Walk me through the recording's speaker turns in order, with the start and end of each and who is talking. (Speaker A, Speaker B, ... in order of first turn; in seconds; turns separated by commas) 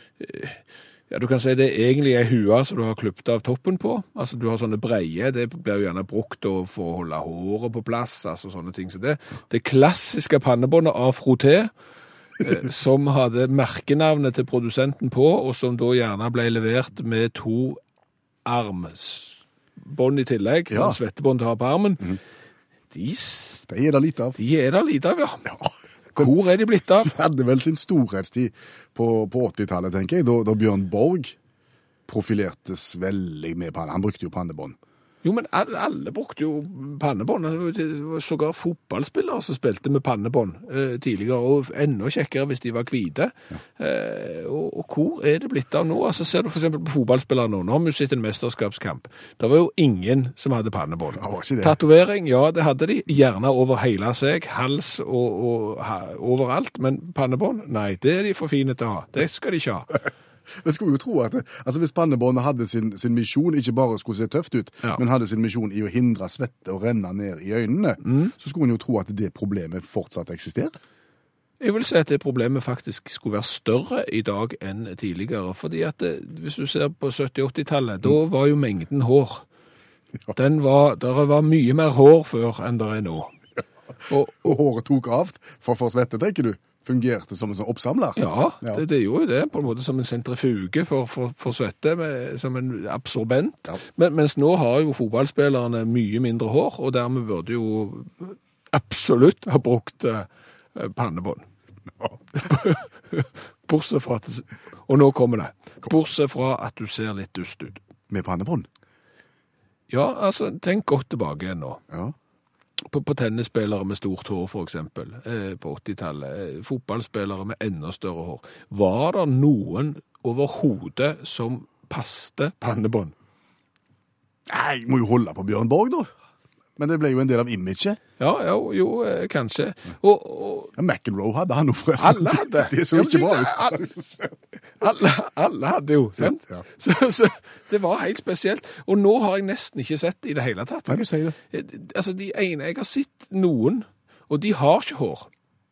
Speaker A: 0.2-11.7, Speaker A: 12.4-17.8, Speaker A: 18.4-22.2, Speaker B: 20.7-21.0, Speaker A: 22.9-23.7, Speaker B: 23.7-24.4, Speaker A: 24.3-25.5, Speaker B: 25.4-26.3, Speaker A: 26.1-27.1, Speaker B: 27.0-31.4, Speaker B: 32.1-34.8, Speaker A: 35.2-60.0, Speaker B: 51.1-51.8, Speaker B: 60.5-70.8, Speaker A: 68.0-68.3, Speaker A: 71.6-79.4, Speaker A: 80.3-83.3, Speaker A: 84.1-84.5, Speaker B: 84.3-88.8, Speaker A: 88.2-101.4, Speaker A: 102.3-107.8, Speaker B: 108.1-108.7, Speaker A: 109.9-111.8, Speaker B: 111.9-112.1, Speaker A: 112.9-123.1, Speaker B: 124.5-126.1, Speaker B: 126.8-128.0, Speaker A: 128.2-130.7, Speaker B: 130.7-134.4, Speaker A: 132.0-133.8, Speaker A: 134.8-145.3, Speaker B: 136.2-136.6, Speaker B: 140.9-141.3